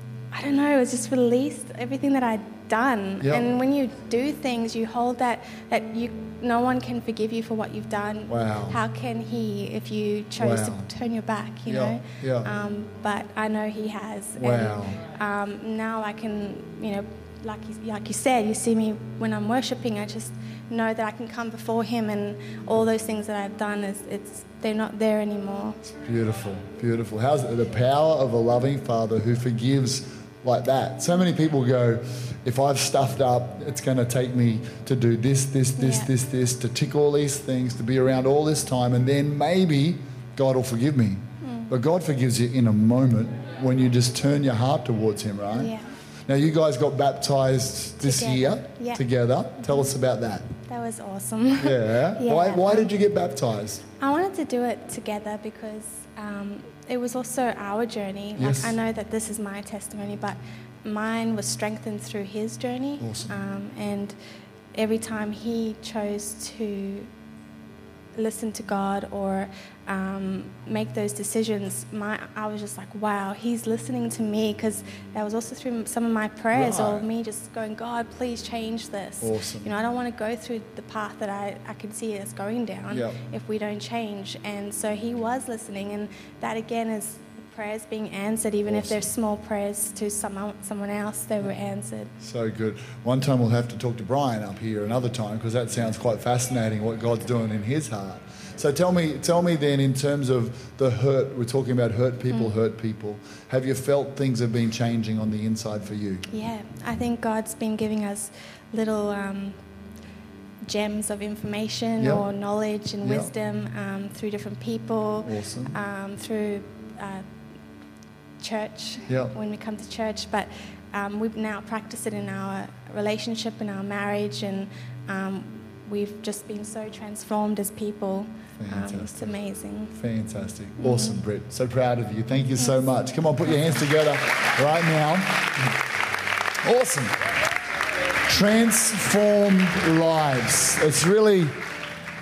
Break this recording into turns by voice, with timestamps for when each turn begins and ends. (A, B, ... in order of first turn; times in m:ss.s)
0:00.3-0:25.8 A
0:03.2-0:03.5 B
0:08.3-0:08.8 B
0:10.4-0:10.9 B
0:11.7-0:12.5 B
0:14.4-0:15.0 B
0:26.0-0:45.7 B
0:35.8-0:36.1 A
0:41.4-0:41.8 A
0:45.6-0:45.8 A
0:46.3-0:50.5 B
0:48.0-0:49.0 A
0:50.7-0:52.9 A
0:51.6-0:53.8 B
0:54.0-1:04.2 A
0:58.4-0:58.8 B
1:03.0-1:03.4 B
1:04.7-1:07.1 A
1:08.2-1:32.1 A
1:16.5-1:17.0 B
1:19.2-1:19.7 B
1:22.9-1:23.2 B
1:28.7-1:29.0 B
1:32.2-1:46.2 B
1:42.3-1:42.6 A
1:46.3-1:49.6 A
1:50.6-1:57.2 A
1:52.0-1:52.2 B
1:53.0-1:53.3 B
1:55.2-1:55.8 B
1:58.4-2:09.9 A
1:59.1-1:59.3 B
2:08.6-2:09.3 B
2:09.9-2:15.7 B
2:10.8-2:11.2 A
2:16.6-2:17.2 B
2:18.3-2:21.5 B